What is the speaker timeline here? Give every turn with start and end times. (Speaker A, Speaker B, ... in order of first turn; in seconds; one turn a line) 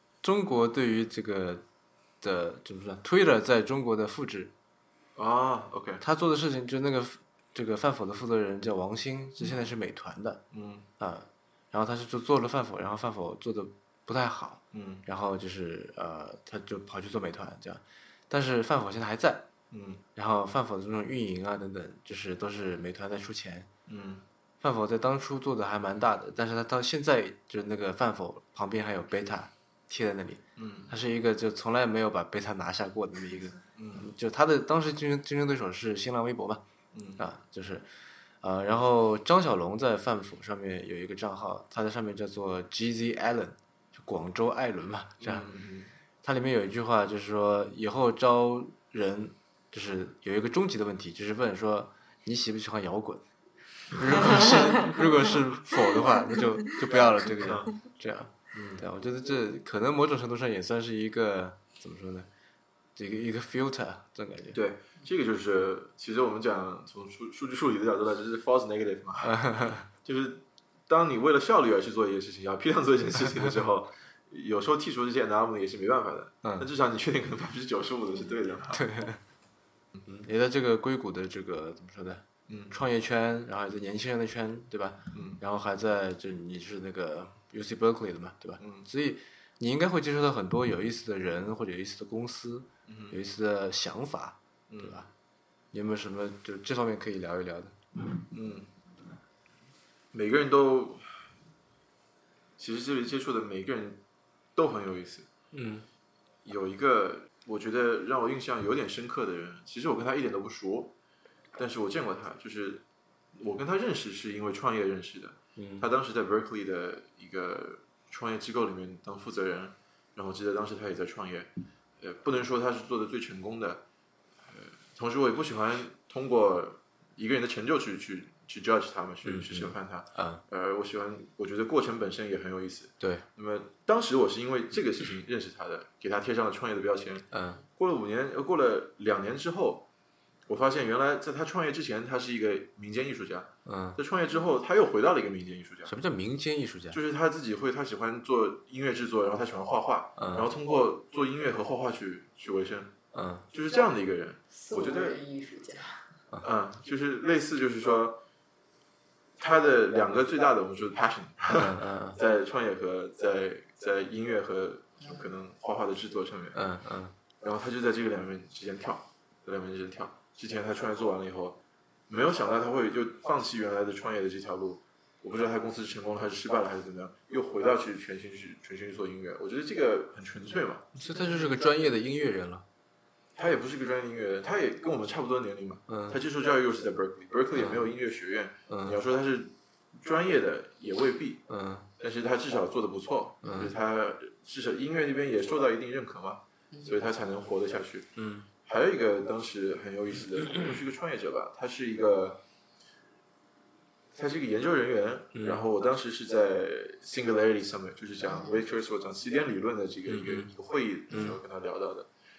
Speaker A: 0.2-1.6
Speaker A: 2.2-4.5
Speaker B: 5.2-6.0
Speaker A: 6.0-10.4
Speaker B: 10.5-10.9
Speaker A: 11.0-19.5
Speaker B: 14.7-15.1
Speaker B: 19.7-20.0
Speaker A: 20.2-23.7
Speaker B: 23.9-24.2
Speaker A: 24.6-36.6
Speaker B: 30.6-30.9
Speaker B: 33.7-34.1
Speaker B: 36.9-37.2
Speaker A: 37.2-37.9
Speaker A: 38.4-45.5
Speaker B: 45.2-46.0
Speaker A: 46.2-53.2
Speaker A: 53.9-62.3
Speaker C: 54.5-55.0
Speaker B: 56.8-57.8
Speaker B: 58.5-58.9
Speaker A: 63.0-64.6
Speaker B: 64.5-78.9
Speaker A: 69.2-69.9
Speaker A: 76.4-76.7
Speaker A: 78.7-79.2
Speaker B: 80.0-80.3
Speaker A: 80.1-95.1
Speaker B: 82.5-82.8
Speaker B: 85.1-85.4
Speaker B: 88.6-88.9
Speaker B: 92.9-93.2
Speaker B: 94.7-95.1
Speaker A: 95.7-97.8
Speaker B: 98.3-98.7
Speaker B: 100.1-101.1
Speaker B: 102.6-104.0
Speaker B: 104.6-105.3
Speaker A: 105.5-105.9
Speaker B: 106.5-110.9
Speaker B: 111.6-123.8
Speaker A: 115.6-115.9
Speaker B: 124.5-139.9
Speaker A: 129.2-130.4
Speaker A: 133.0-133.3
Speaker A: 137.3-137.6
Speaker B: 140.5-145.9
Speaker A: 143.6-144.0
Speaker A: 145.9-147.0
Speaker B: 146.9-153.0
Speaker A: 150.2-150.5
Speaker A: 153.1-153.4
Speaker B: 153.5-155.2
Speaker C: 154.5-156.1
Speaker B: 156.4-158.2
Speaker B: 159.4-166.6
Speaker A: 161.5-162.2
Speaker C: 165.0-165.3
Speaker A: 166.5-167.1
Speaker B: 167.4-180.9
Speaker A: 180.9-182.7
Speaker C: 181.1-181.6
Speaker B: 183.4-191.4
Speaker A: 185.9-186.2
Speaker A: 187.6-187.9
Speaker A: 188.7-189.0
Speaker A: 191.5-191.9
Speaker B: 192.0-198.1
Speaker A: 193.4-193.7
Speaker A: 198.2-198.5
Speaker B: 198.6-202.4
Speaker B: 204.1-212.1
Speaker A: 205.3-205.7
Speaker C: 208.2-208.6
Speaker A: 210.1-210.5
Speaker A: 211.1-211.4